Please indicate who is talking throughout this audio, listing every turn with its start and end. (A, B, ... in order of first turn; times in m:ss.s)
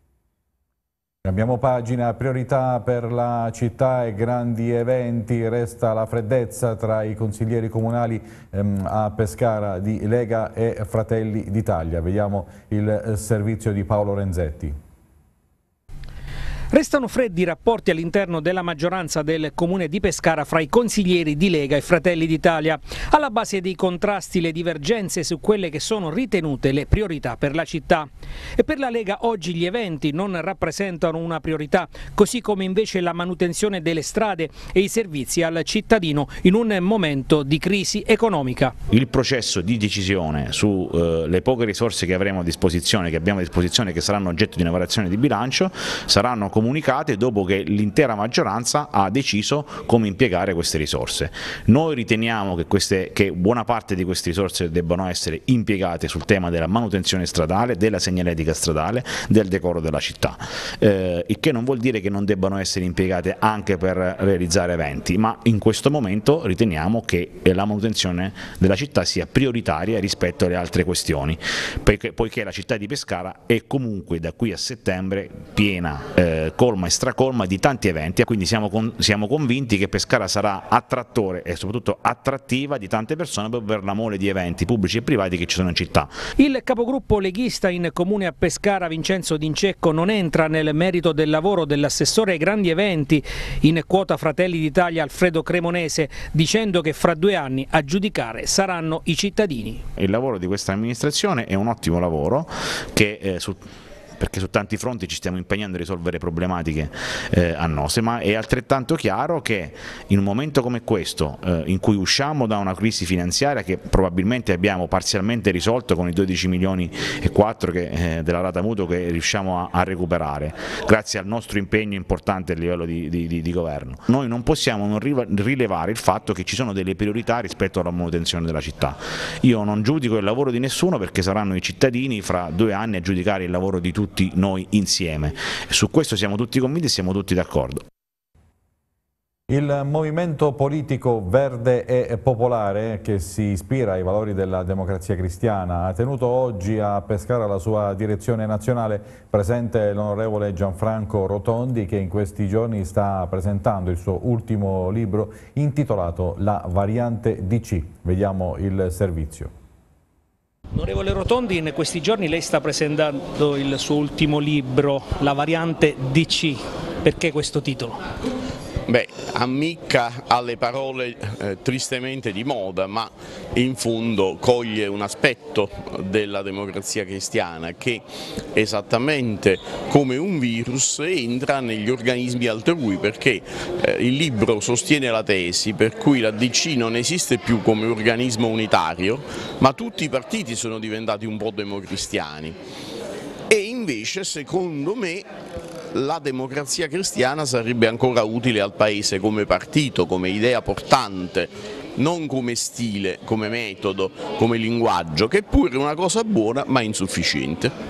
0:01.2-0:14.8 A
0:16.7-0:38.7 B
0:38.9-1:26.2 C
1:26.4-1:39.8 B
1:40.0-1:43.6 C
1:44.2-2:17.8 C
2:19.5-2:39.5 A
2:40.7-2:48.0 B
2:48.9-2:58.0 D
2:58.5-3:12.6 D
3:13.5-3:15.3 D
3:15.9-3:27.7 D